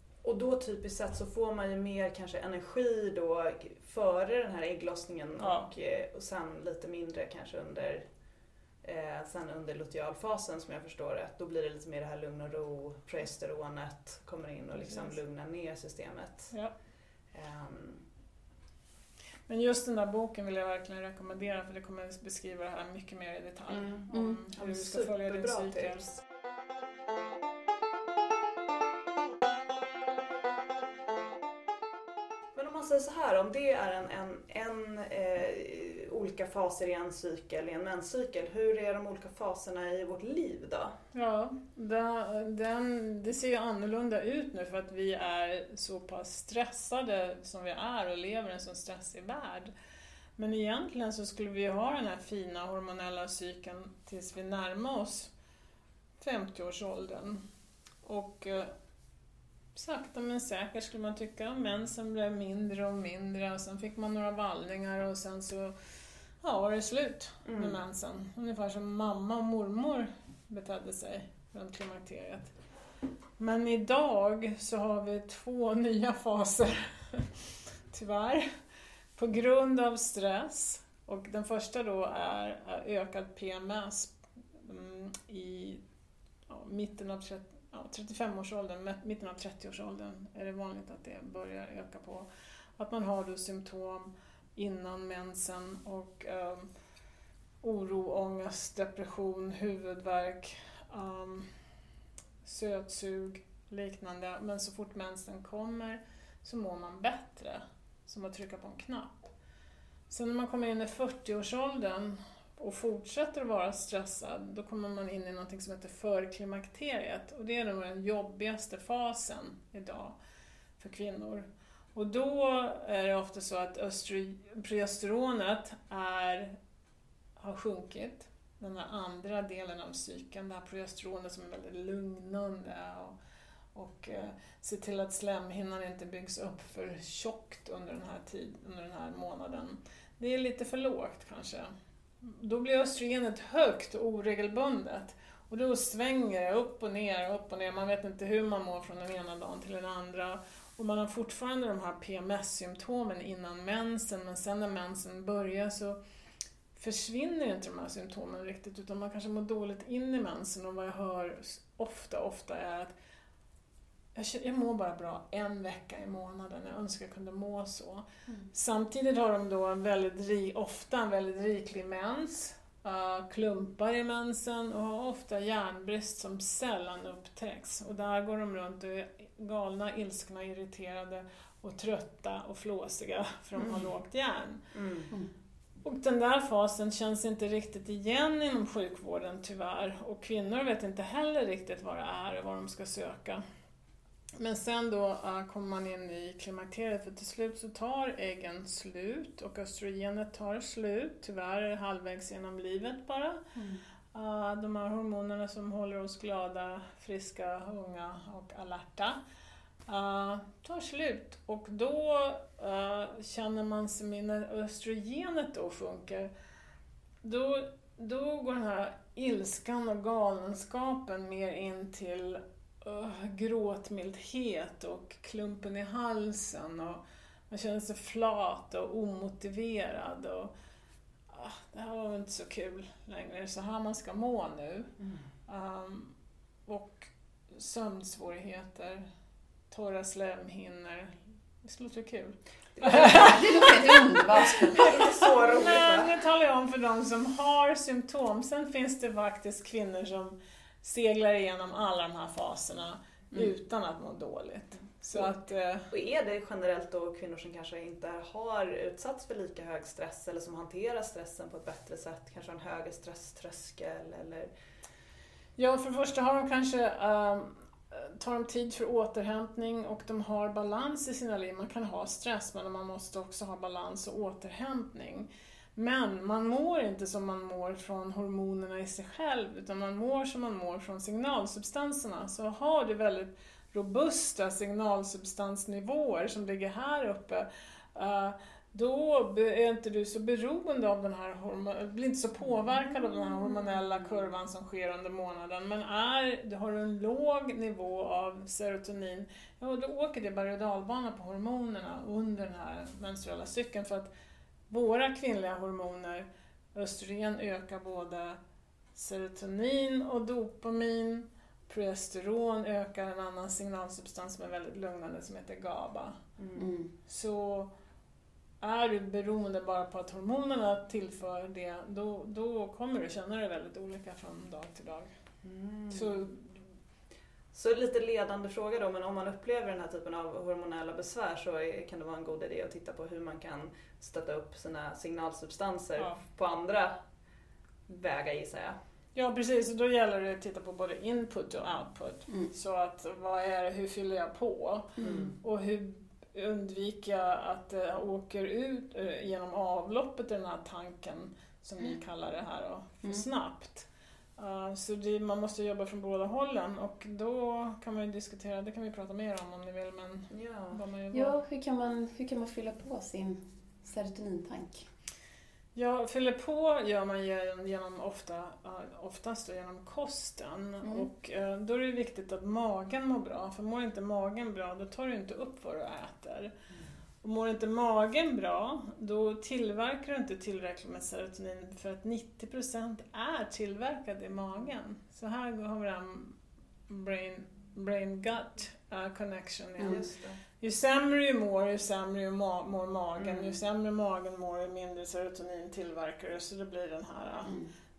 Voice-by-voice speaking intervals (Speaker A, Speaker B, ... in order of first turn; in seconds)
Speaker A: 0.2-8.1, 8.8-16.5, 17.3-18.1, 24.5-26.1, 32.5-41.0, 67.5-67.8, 183.6-183.9, 184.7-185.1, 242.8-243.5, 244.4-246.2, 255.9-264.5, 316.4-316.6, 325.4-326.2, 327.5-336.9, 337.9-338.8, 345.0-345.4, 360.3-360.8, 389.8-390.4, 393.2-393.6
Speaker B: 5.4-5.7, 19.5-26.1, 41.1-49.7, 50.4-55.3, 56.2-57.4, 58.0-58.7, 59.8-65.8, 66.4-72.5, 73.4-78.5, 79.2-85.8, 86.5-96.7, 97.6-101.5, 102.4-109.3, 110.1-120.2, 120.8-126.5, 127.4-133.2, 133.7-156.0, 156.8-162.9, 164.2-184.6, 185.8-193.4, 194.4-203.4, 204.1-209.2, 209.9-216.3, 217.2-230.5, 231.3-234.9, 235.5-236.1, 236.7-239.1, 239.7-255.9, 265.6-304.1, 304.7-308.4, 308.9-316.2, 317.1-317.7, 318.6-325.1, 325.9-326.6, 339.1-361.4, 365.8-376.5, 377.2-386.4, 386.9-390.1, 390.6-397.6
Speaker C: 24.1-24.4, 203.6-203.8, 242.8-244.9, 316.6-316.9, 345.0-345.3, 361.1-364.9, 370.8-371.1, 397.4-397.7